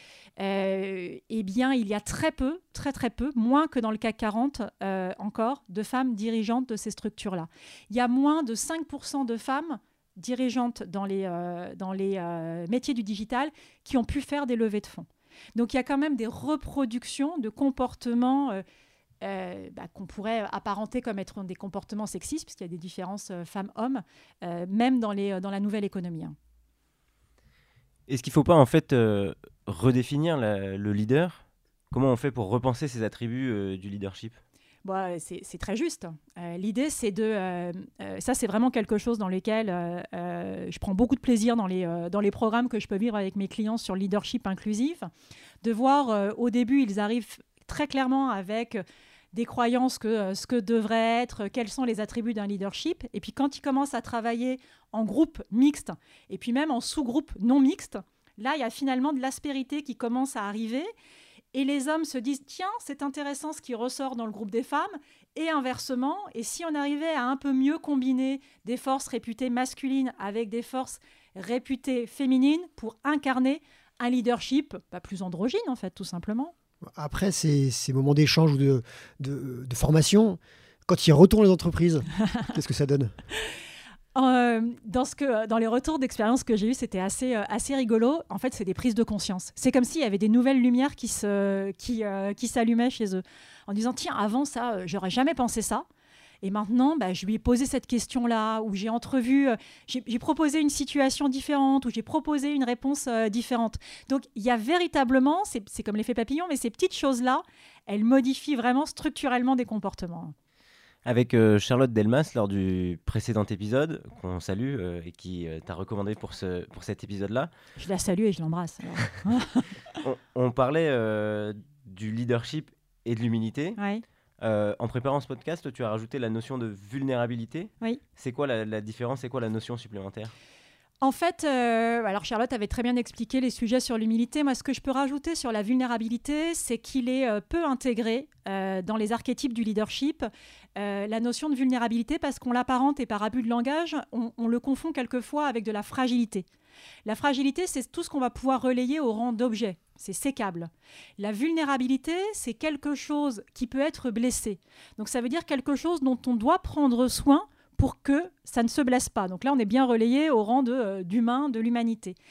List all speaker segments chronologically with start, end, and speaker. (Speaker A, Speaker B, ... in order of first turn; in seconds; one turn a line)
Speaker A: 0.4-18.6
Speaker A: 19.2-26.3
Speaker B: 28.1-34.4
Speaker A: 34.8-45.1
Speaker A: 45.6-48.8
Speaker A: 49.3-60.9
Speaker A: 61.5-76.5
Speaker C: 77.0-83.1
Speaker A: 84.1-95.8
Speaker A: 96.4-110.3
Speaker B: 111.0-117.5
Speaker A: 117.8-119.7
Speaker B: 120.0-123.8
Speaker A: 123.8-124.0
Speaker B: 124.4-130.3
Speaker A: 131.0-146.4
Speaker A: 147.1-162.2